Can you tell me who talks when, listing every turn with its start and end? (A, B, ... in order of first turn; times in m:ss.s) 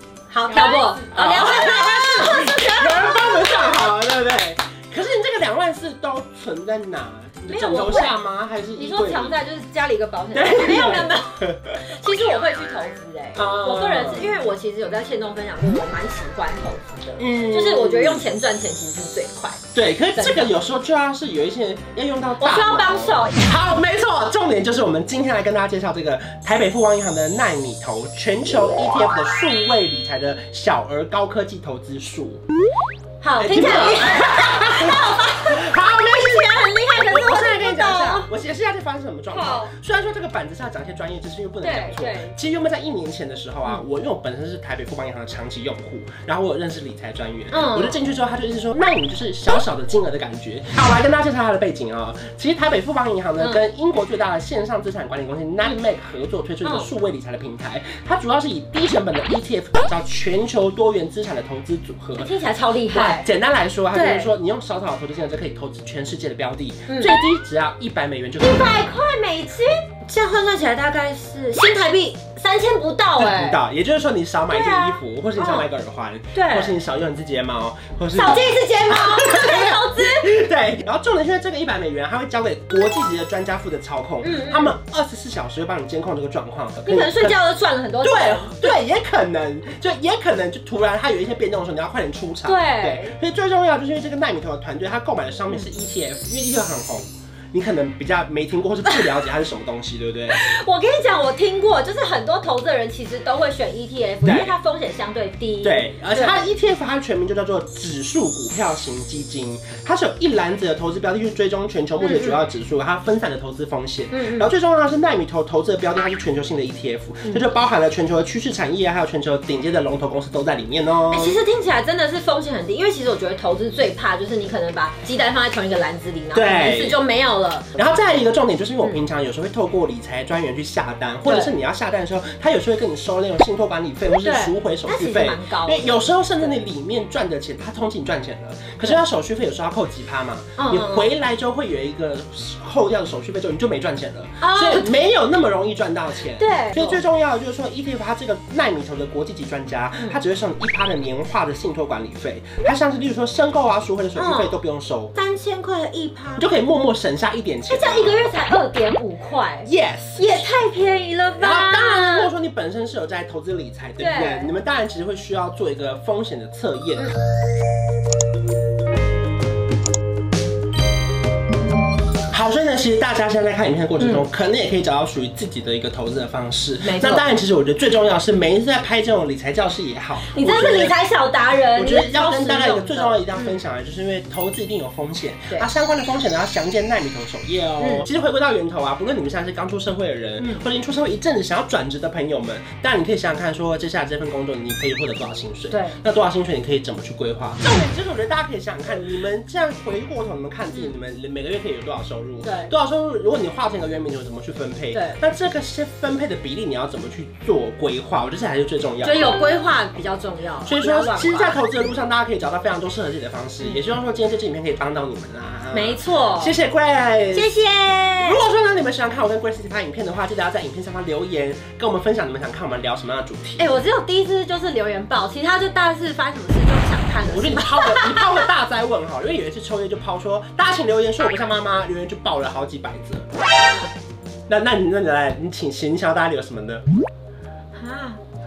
0:00.3-0:03.9 A
0:00.5-0:09.4 B
0:07.4-0:08.1 A
0:08.8-0:20.6 A
0:10.3-0:11.8 B
0:13.3-0:14.4 B
0:17.2-0:18.3 B
0:19.7-0:32.4 B
0:22.4-0:23.5 A
0:33.2-0:38.3 A
0:33.4-1:02.3 B
0:39.3-0:39.7 A
0:41.6-0:42.4 A
0:47.5-0:48.0 A
0:56.6-0:56.9 A
1:02.2-1:03.2 A
1:02.9-1:08.8 B
1:03.9-1:04.3 A
1:06.9-1:07.1 A
1:08.4-1:13.6 A
1:13.2-1:27.4 B
1:14.5-1:15.7 A
1:16.3-1:16.8 A
1:18.1-1:20.3 A
1:24.2-1:24.8 A
1:26.8-1:28.7 A
1:28.0-1:40.4 B
1:32.4-1:33.1 A
1:40.3-1:46.5 A
1:44.2-1:44.5 B
1:45.6-2:01.4 B
1:52.0-1:52.4 A
1:54.1-1:54.5 A
2:01.1-2:07.7 A
2:06.3-2:07.0 B
2:07.7-2:35.1 B
2:11.2-2:11.5 A
2:14.2-2:16.6 A
2:20.6-2:21.1 A
2:24.4-2:24.9 A
2:26.4-2:27.0 A
2:34.2-2:34.6 A
2:35.1-2:36.5 A
2:36.4-2:38.2 B
2:37.7-2:42.3 A
2:39.6-2:40.4 B
2:41.4-2:47.1 B
2:44.0-2:44.5 A
2:52.3-3:01.0 B
2:54.0-2:54.2 A
2:56.8-2:57.2 A
3:00.2-3:03.6 A
3:01.7-3:29.4 B
3:07.8-3:08.0 A
3:10.4-3:10.6 A
3:15.7-3:16.0 A
3:22.4-3:22.7 A
3:24.9-3:25.2 A
3:29.0-3:31.6 A
3:30.6-3:37.5 B
3:35.7-3:36.6 A
3:37.3-3:38.4 A
3:38.2-3:43.7 B
3:43.6-3:48.4 A
3:47.2-3:53.2 B
3:54.5-3:56.8 B
3:57.8-3:58.2 A